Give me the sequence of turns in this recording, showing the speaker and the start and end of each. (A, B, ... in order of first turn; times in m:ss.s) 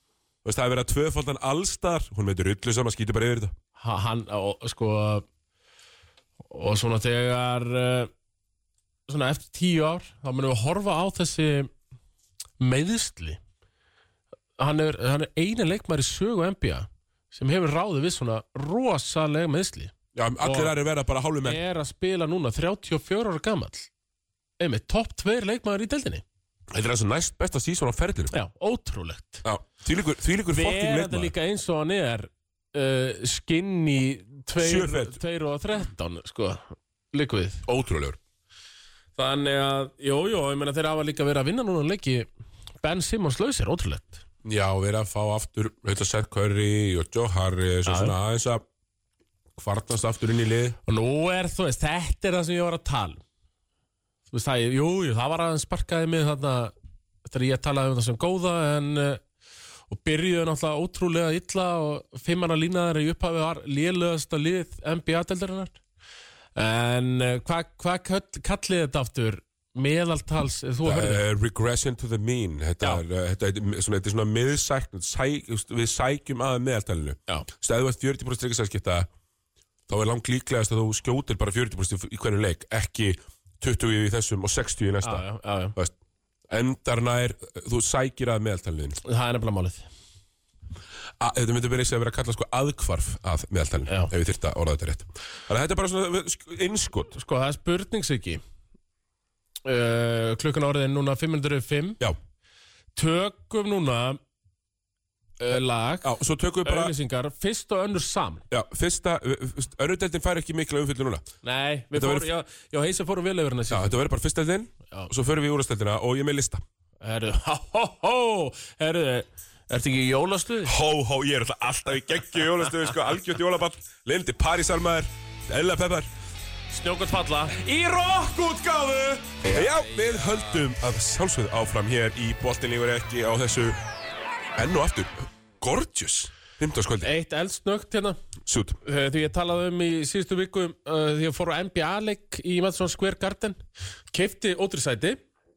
0:00.4-0:03.5 A
0:03.8-0:05.3 B
0:06.5-0:08.1 B
0:09.1-0:11.7 B
0:12.6-0:13.4 B
0:14.6-0:20.7 B
0:20.2-0:21.6 A
0:21.4-0:23.9 B
0:24.6-0:26.2 B
0:26.7-0:28.4 A
0:28.3-0:29.4 B
0:29.4-0:31.3 A
0:30.5-0:37.7 B
0:34.6-0:35.2 A
0:37.7-0:38.2 A
0:39.2-0:42.3 B
0:42.8-0:44.2 B
0:44.4-0:48.6 A
0:47.9-0:48.2 B
0:49.6-0:50.8 A
0:50.9-0:53.2 B
0:54.3-0:56.7 B
0:57.2-0:59.2 B
0:59.9-1:05.8 B
1:06.6-1:11.2 B
1:10.8-1:19.1 A
1:19.9-1:25.9 A
1:25.0-1:25.8 B
1:26.5-1:29.0 A
1:29.0-1:29.9 B
1:31.2-1:37.2 A
1:37.1-1:38.4 B
1:39.6-1:42.0 B
1:43.0-1:44.2 B
1:45.4-1:46.1 B
1:46.0-1:46.9 A
1:46.6-1:48.4 B
1:48.5-1:51.3 A
1:51.4-1:54.0 B
1:51.9-1:52.3 A
1:53.7-1:56.6 A
1:57.0-2:00.8 B
2:00.6-2:06.1 A
2:06.7-2:10.6 B
2:09.4-2:13.8 A
2:14.6-2:17.1 A
2:17.0-2:18.2 B
2:18.5-2:18.8 A
2:18.8-2:23.6 B
2:24.1-2:25.2 B